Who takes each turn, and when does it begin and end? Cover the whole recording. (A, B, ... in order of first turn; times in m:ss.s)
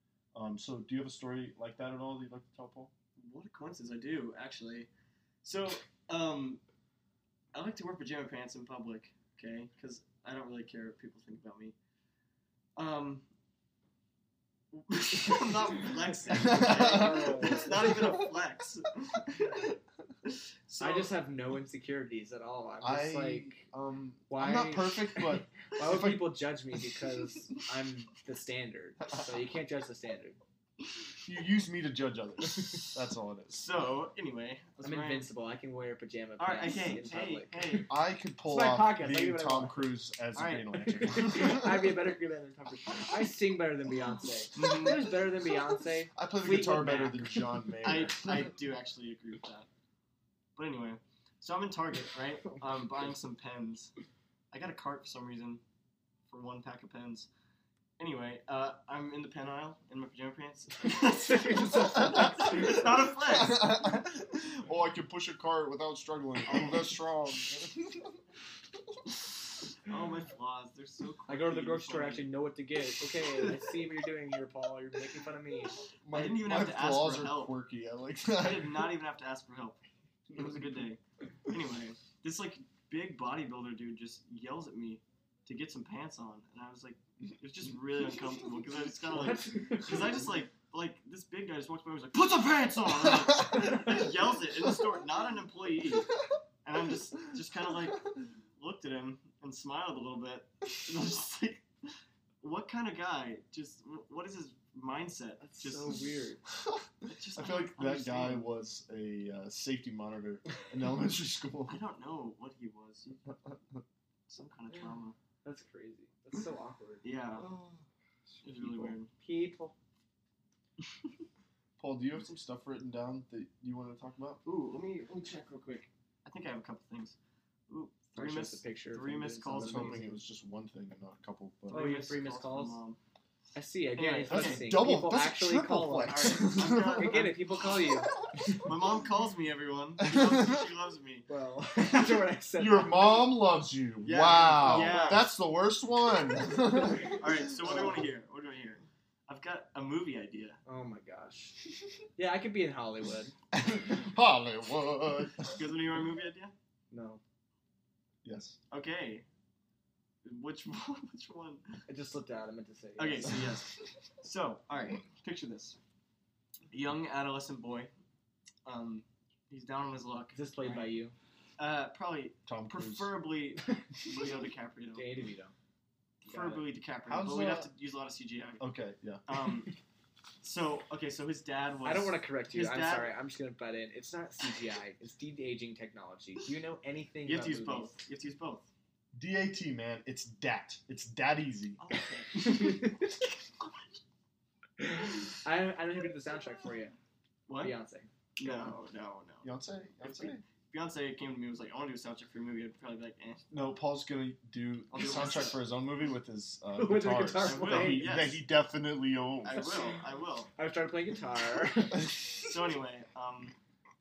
0:00.3-0:02.9 A
0:03.2-0:04.9 B
0:05.4-0:06.6 B
0:07.5-0:11.8 B
0:12.8-0:13.2 B
0:14.7-0:19.7 B
0:16.3-0:18.2 A
0:16.3-0:17.9 C
0:20.3-0:21.1 B
0:20.8-0:23.7 C
0:22.8-0:26.4 A
0:24.3-0:30.4 C
0:31.2-0:33.7 A
0:33.5-0:35.3 B
0:34.8-0:37.8 C
0:36.4-0:37.9 B
0:37.9-0:41.9 A
0:38.5-0:40.0 C
0:40.4-0:40.8 B
0:40.7-0:47.6 C
0:44.6-0:45.0 B
0:46.1-0:48.5 A
0:47.8-0:49.7 B
0:50.6-0:53.9 B
0:54.5-0:55.6 B
0:56.3-0:57.3 B
0:58.0-1:03.8 B
1:01.0-1:02.9 C
1:02.0-1:02.6 A
1:03.2-1:08.2 A
1:06.5-1:06.9 B
1:09.8-1:12.3 B
1:11.3-1:15.8 C
1:16.0-1:18.9 A
1:16.1-1:17.5 B
1:18.4-1:19.8 B
1:20.3-1:41.7 B
1:29.1-1:30.2 C
1:42.4-1:46.0 B
1:45.4-1:46.4 C
1:47.0-1:48.5 B
1:47.4-1:51.8 A
1:51.7-1:53.4 B
1:54.3-1:55.2 B
1:55.4-1:57.0 C
1:57.0-1:57.5 B
1:57.4-1:57.8 A
1:58.4-1:59.1 B
1:59.1-1:59.8 C
2:01.8-2:04.4 A
2:04.4-2:07.2 B
2:07.7-2:10.0 B
2:08.2-2:10.1 C
2:09.5-2:11.9 A
2:11.7-2:12.8 C
2:11.7-2:13.0 B
2:13.6-2:18.7 C
2:14.0-2:14.7 B
2:14.3-2:17.2 A
2:16.1-2:17.6 B
2:18.6-2:21.3 B
2:20.0-2:20.6 A
2:21.3-2:23.3 C
2:22.6-2:27.4 A
2:24.0-2:25.3 B
2:24.6-2:25.2 C
2:26.8-2:27.8 C
2:27.0-2:30.6 B
2:30.7-2:31.6 C
2:32.2-2:33.4 C
2:33.5-2:35.6 A
2:35.4-2:36.5 B
2:36.9-2:37.2 C
2:38.2-2:38.6 A
2:38.7-2:39.2 B
2:40.2-2:41.6 B
2:41.9-2:43.4 C
2:43.0-2:45.8 B
2:46.7-2:47.9 B
2:48.6-2:50.9 B
2:50.3-2:51.1 C
2:51.6-2:55.0 B
2:52.5-2:53.1 A
2:55.0-2:55.5 C
2:56.2-2:58.6 B
2:56.3-2:56.7 C
2:57.1-2:57.7 A
2:58.6-2:59.3 A
2:59.3-2:59.7 B
3:00.4-3:03.2 B
3:01.8-3:08.0 C
3:07.2-3:08.7 B
3:09.2-3:11.8 A
3:11.8-3:13.0 B
3:12.4-3:13.2 C
3:14.8-3:17.0 C
3:17.5-3:17.8 B
3:17.6-3:18.8 C
3:18.4-3:23.5 B
3:19.4-3:20.4 A
3:23.5-3:29.7 A
3:24.9-3:25.6 B
3:26.8-3:28.2 C
3:27.4-3:28.4 B
3:29.4-3:30.5 B
3:29.5-3:30.0 C
3:30.6-3:32.2 C
3:32.3-3:33.5 B